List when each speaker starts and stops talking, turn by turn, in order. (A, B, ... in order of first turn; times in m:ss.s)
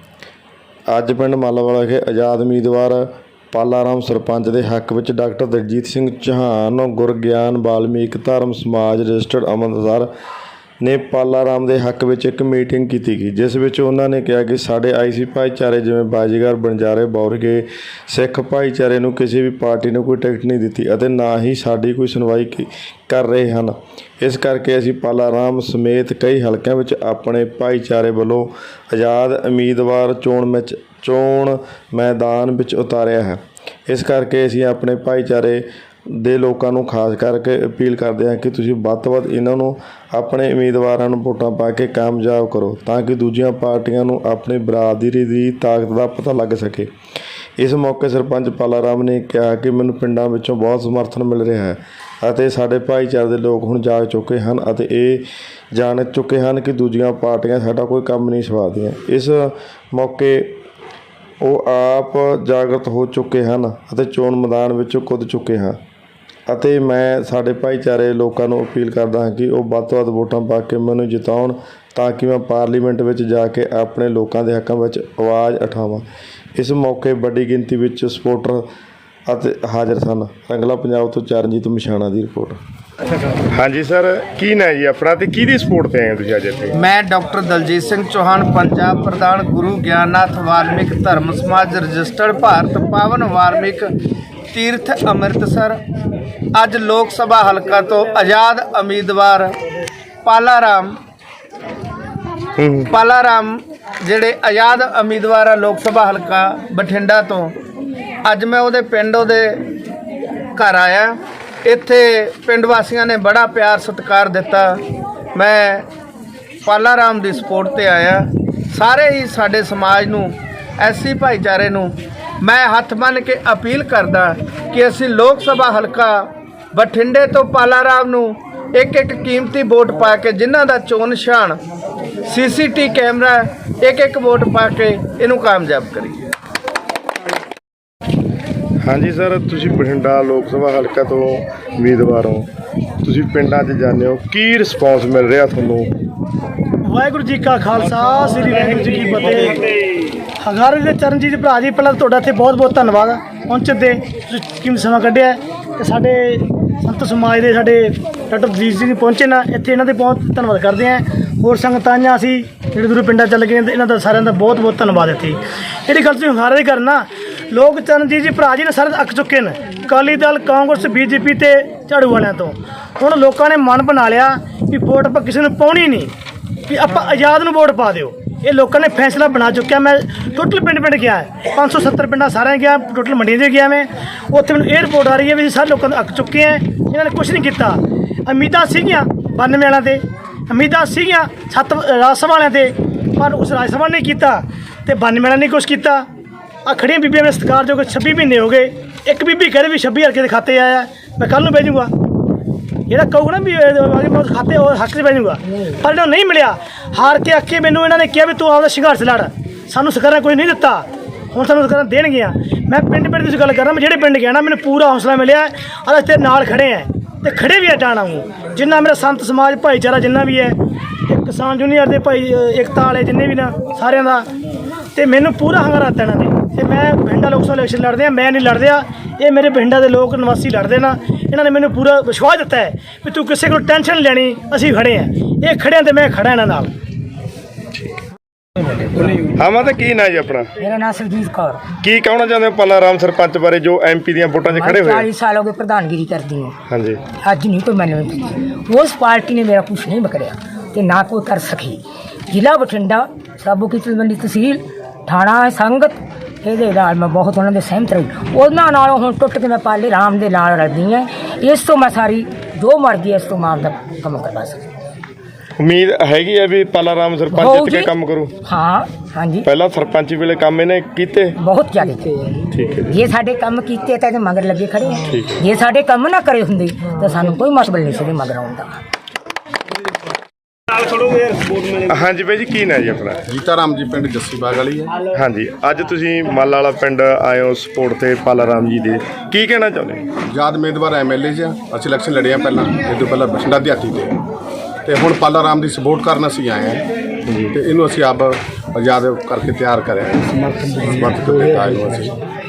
0:00.9-0:10.1 A
0:10.8-0:46.9 A
0:47.6-1:00.5 A
1:01.4-1:05.8 A
1:06.5-1:16.0 A
1:16.6-1:18.7 A
1:19.3-1:22.6 A
1:23.4-1:26.8 A
1:26.7-1:33.9 B
1:34.5-1:35.8 B
1:36.5-1:39.5 B
1:40.2-1:41.0 B
1:42.6-1:42.9 A
1:42.9-1:47.5 B
1:48.2-1:49.6 B
1:50.6-1:54.8 B
1:55.3-1:55.9 B
1:56.6-2:11.6 B
2:12.2-2:16.3 B
2:18.8-2:22.5 A
2:23.0-2:25.9 A
2:26.8-2:29.6 C
2:30.4-2:56.1 C
2:56.7-3:16.0 C
3:16.6-3:21.9 C
3:22.9-3:40.6 C
3:41.1-3:44.2 C
3:44.9-3:56.7 C
3:59.4-4:00.5 A
4:00.6-4:01.6 D
4:01.8-4:05.1 A
4:04.5-4:06.6 D
4:06.7-4:07.0 A
4:07.2-4:24.7 D
4:25.6-4:28.3 A
4:27.3-4:27.9 D
4:28.4-4:29.5 D
4:29.4-4:31.4 A
4:31.4-4:32.2 D
4:32.5-4:32.9 A
4:32.9-4:38.8 D
4:41.7-4:43.2 A
4:43.3-4:45.0 E
4:45.2-4:50.0 A
4:50.3-4:54.2 E
4:54.8-4:56.8 E
4:57.5-5:02.2 E